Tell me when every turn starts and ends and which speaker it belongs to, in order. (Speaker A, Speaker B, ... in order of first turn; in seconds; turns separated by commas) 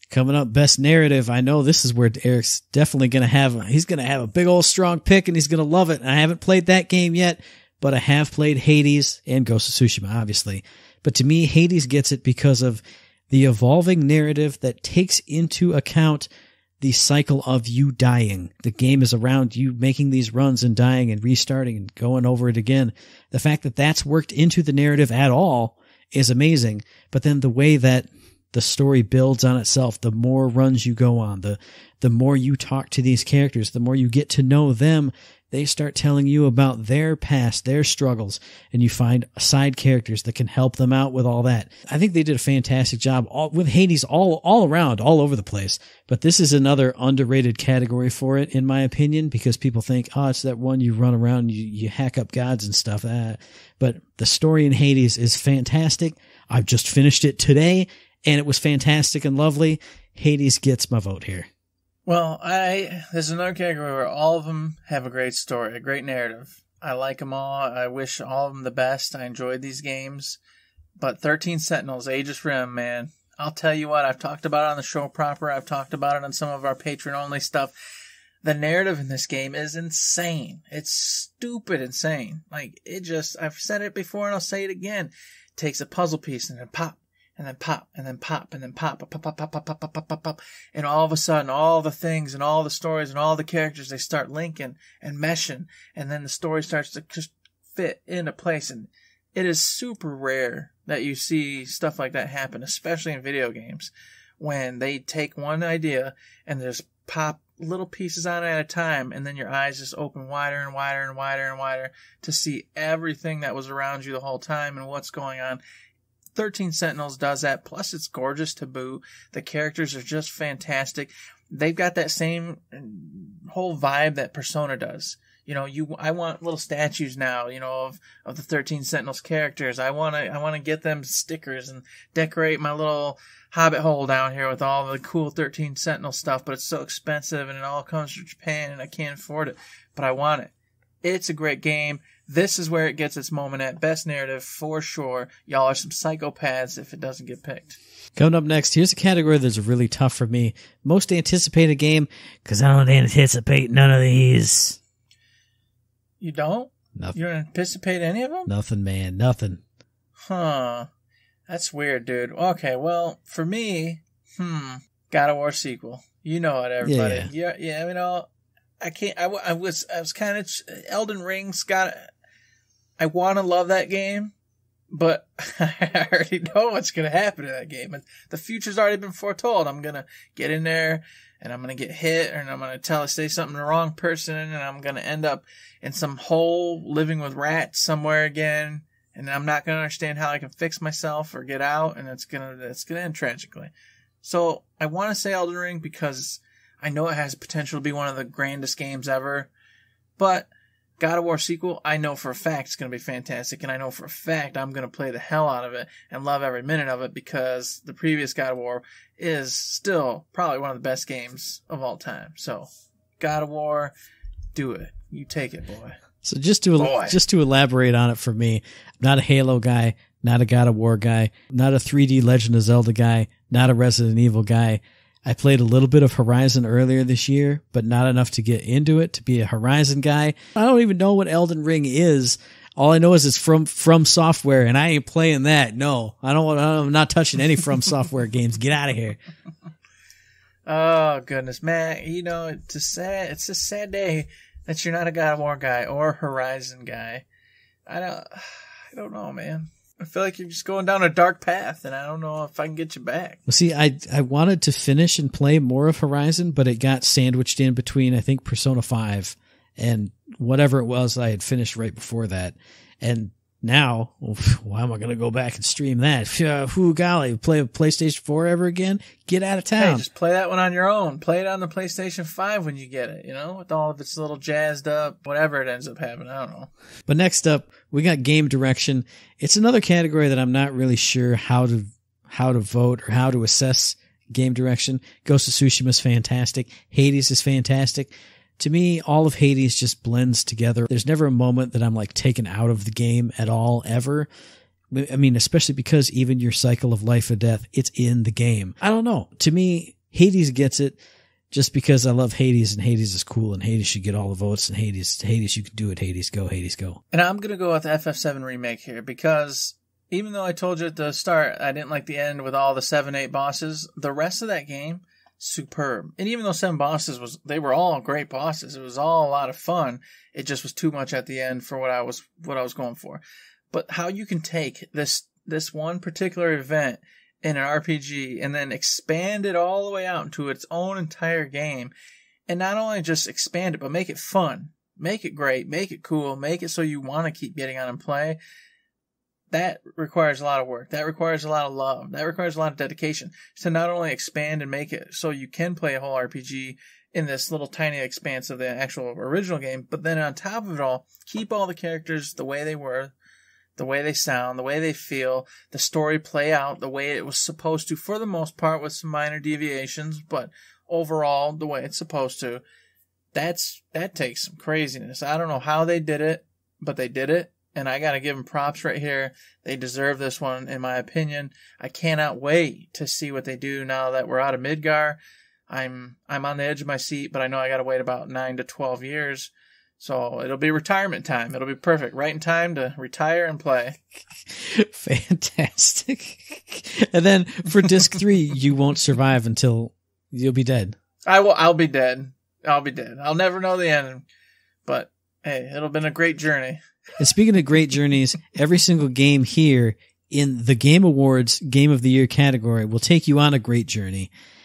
Speaker A: 0.1-16.3, Speaker A: 16.8-61.5, Speaker B: 62.1-70.4, Speaker B: 71.0-77.7, Speaker B: 78.4-115.6, Speaker B: 116.3-140.5, Speaker B: 141.0-147.8, Speaker A: 148.2-154.8, Speaker B: 156.2-158.5, Speaker A: 158.5-159.6, Speaker B: 160.3-160.9, Speaker B: 161.5-168.3, Speaker A: 166.8-167.3, Speaker B: 168.8-172.1, Speaker B: 173.0-174.3, Speaker B: 174.9-199.5, Speaker B: 200.2-213.9, Speaker B: 214.6-216.0, Speaker A: 216.2-239.2, Speaker B: 216.8-217.2, Speaker B: 240.7-247.2, Speaker B: 247.9-253.4, Speaker A: 253.5-270.1, Speaker B: 269.8-276.7, Speaker A: 277.1-294.3, Speaker A: 294.9-301.0, Speaker A: 301.5-307.0, Speaker B: 307.1-331.9, Speaker B: 332.5-338.4, Speaker B: 339.5-353.1, Speaker B: 353.8-362.6, Speaker B: 363.3-375.2, Speaker B: 375.7-384.0, Speaker A: 384.4-391.0, Speaker B: 391.3-394.2, Speaker B: 394.9-396.8, Speaker A: 397.2-404.3